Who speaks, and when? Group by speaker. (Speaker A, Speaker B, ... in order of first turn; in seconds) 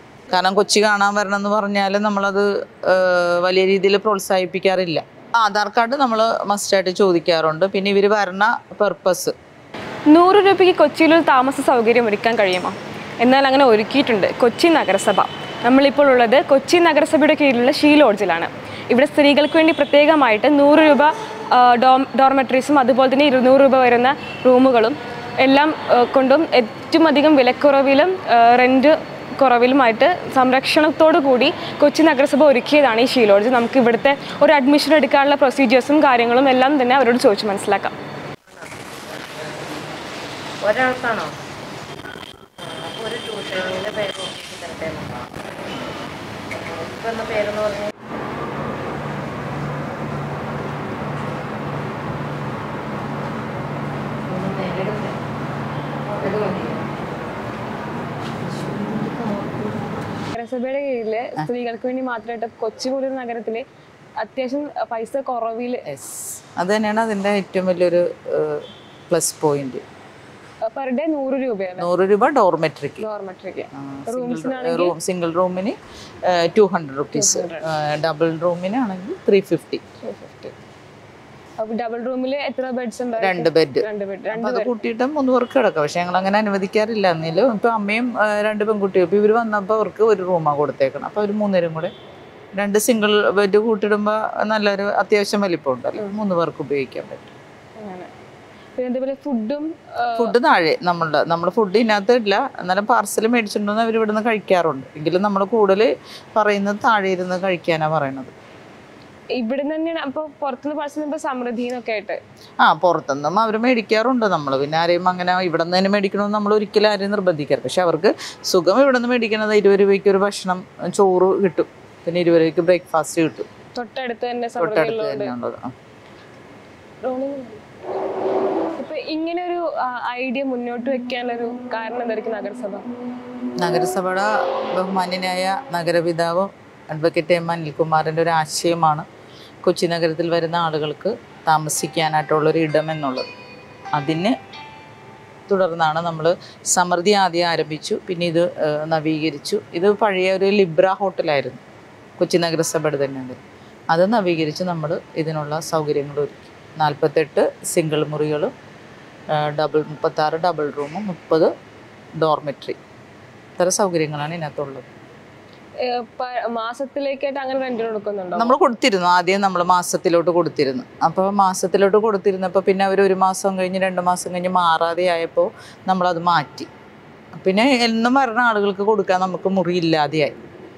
Speaker A: 0.3-9.3, 65.9-69.8, 71.8-73.0, 73.7-79.8, 83.2-91.9, 92.5-97.3, 100.2-108.3, 112.6-123.5, 124.6-125.7, 133.6-139.1, 139.6-143.2, 143.9-144.4, 145.5-151.6, 152.2-153.4, 153.9-158.5, 159.3-161.5, 162.2-162.8, 163.6-164.9, 168.4-176.7, 177.3-180.4
Speaker B: 10.1-37.9, 60.3-63.6, 64.2-65.9, 70.7-71.9, 73.0-75.0, 77.1-77.7, 80.0-80.5, 81.6-84.8, 97.8-98.1, 98.8-100.3, 109.4-112.2, 123.8-125.3, 127.0-127.6, 128.8-132.8, 165.8-168.6
Speaker C: 40.6-41.4, 42.6-45.5, 46.5-47.9, 54.3-55.2, 56.1-57.0, 58.4-59.9